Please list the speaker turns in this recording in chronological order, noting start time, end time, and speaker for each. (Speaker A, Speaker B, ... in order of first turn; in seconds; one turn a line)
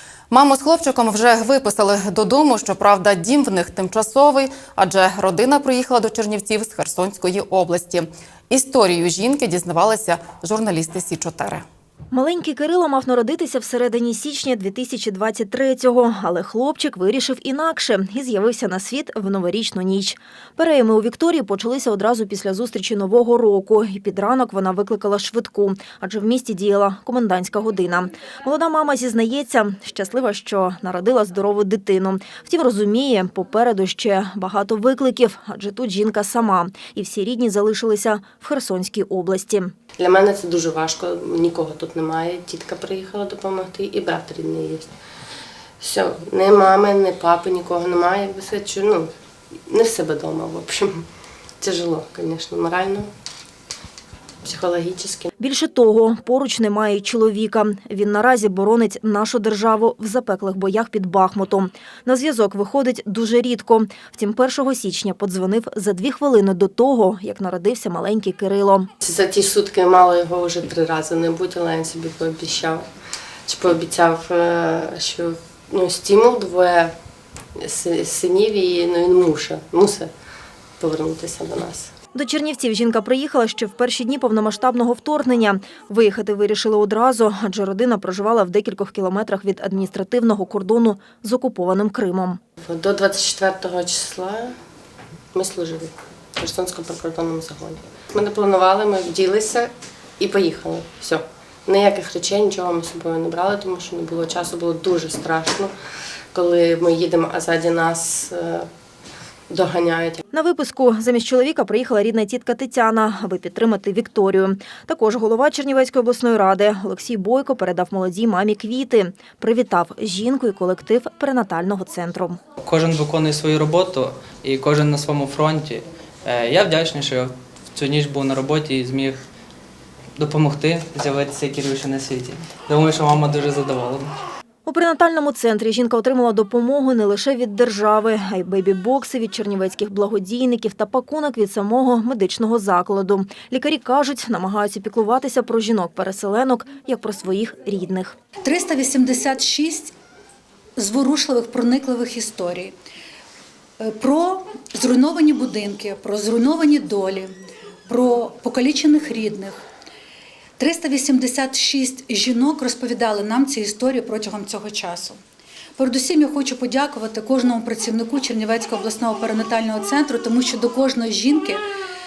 Speaker A: 0.3-11.7
Speaker B: 12.1-39.7
Speaker C: 40.0-44.9
Speaker C: 45.8-49.1
Speaker C: 49.7-51.0
Speaker C: 51.6-53.1
Speaker C: 54.4-55.3
Speaker B: 55.4-68.9
Speaker C: 69.0-72.9
Speaker C: 73.5-77.0
Speaker C: 77.6-80.1
Speaker C: 80.8-81.9
Speaker B: 82.1-92.4
Speaker C: 92.6-94.6
Speaker C: 95.3-105.7
Speaker C: 106.3-108.7
Speaker C: 109.5-110.2
Speaker B: 110.3-122.4
Speaker D: 122.6-129.2
Speaker D: 130.2-134.1
Speaker B: 134.7-148.2
Speaker E: 148.4-149.9
Speaker E: 150.8-152.7
Speaker E: 153.8-157.3
Speaker E: 157.9-159.6
Speaker E: 160.6-165.2
Speaker E: 165.8-171.6